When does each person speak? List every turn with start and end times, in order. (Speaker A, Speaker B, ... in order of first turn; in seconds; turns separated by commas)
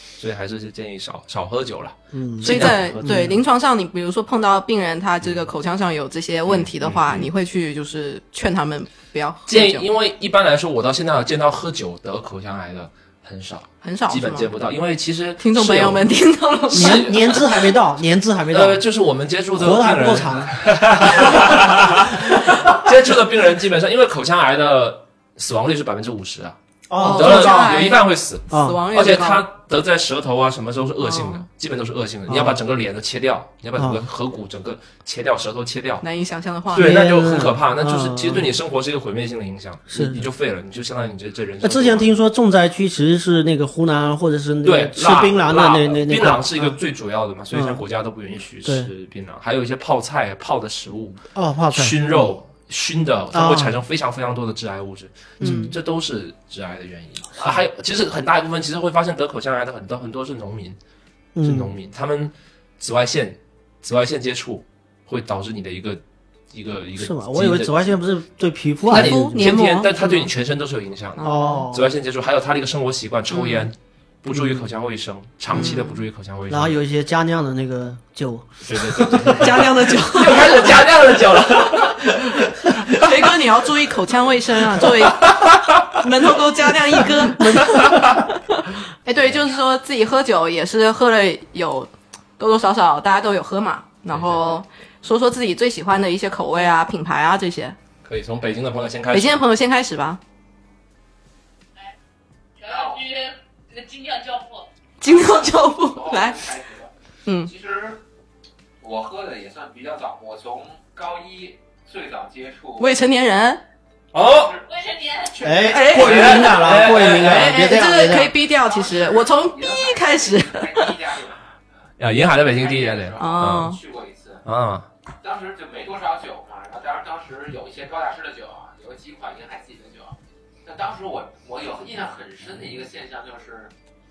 Speaker A: 0.2-3.3, Speaker B: 2.1-3.4, Speaker C: 2.4-9.9, Speaker A: 6.5-7.3, Speaker A: 9.5-16.1, Speaker C: 13.8-14.5, Speaker C: 15.4-17.1, Speaker A: 16.7-17.4, Speaker B: 16.7-18.8, Speaker A: 18.5-36.0, Speaker B: 19.5-22.0, Speaker B: 26.9-27.9, Speaker C: 27.0-29.4, Speaker B: 28.5-28.8, Speaker C: 31.0-31.4, Speaker B: 32.3-32.6, Speaker B: 33.8-34.0, Speaker C: 36.0-37.0, Speaker A: 36.7-42.0, Speaker B: 36.7-38.5, Speaker B: 39.9-40.3, Speaker B: 41.6-46.8, Speaker A: 44.6-51.2, Speaker B: 47.5-47.8, Speaker B: 48.6-48.9, Speaker B: 51.3-52.3, Speaker A: 51.7-60.8, Speaker B: 53.3-53.8, Speaker B: 55.4-55.8, Speaker C: 55.4-55.7, Speaker B: 61.3-61.7, Speaker A: 61.4-67.9, Speaker B: 67.0-69.4, Speaker A: 68.9-76.8, Speaker C: 68.9-70.3, Speaker C: 71.2-71.6, Speaker B: 71.2-71.9, Speaker C: 73.3-73.7, Speaker B: 74.3-74.7, Speaker C: 75.5-76.0, Speaker B: 76.5-79.6, Speaker A: 78.7-83.1, Speaker C: 79.3-80.7, Speaker C: 82.8-88.2, Speaker A: 84.8-86.0, Speaker B: 87.5-87.9, Speaker A: 87.6-88.1, Speaker C: 89.0-97.8, Speaker A: 94.1-94.6, Speaker A: 98.0-99.4, Speaker C: 99.1-100.2, Speaker D: 102.6-104.7, Speaker E: 102.6-103.0, Speaker C: 105.0-106.4, Speaker E: 105.0-106.9, Speaker E: 107.4-108.0, Speaker E: 108.8-112.9, Speaker C: 112.8-113.6, Speaker A: 114.1-114.6, Speaker E: 114.2-114.7, Speaker D: 114.7-115.6, Speaker E: 115.2-116.4, Speaker B: 115.4-118.3, Speaker C: 115.6-121.0, Speaker A: 115.9-117.7, Speaker E: 118.0-121.4, Speaker A: 122.0-123.7, Speaker E: 122.4-124.4, Speaker C: 123.2-123.8, Speaker A: 124.4-124.9, Speaker E: 125.2-133.7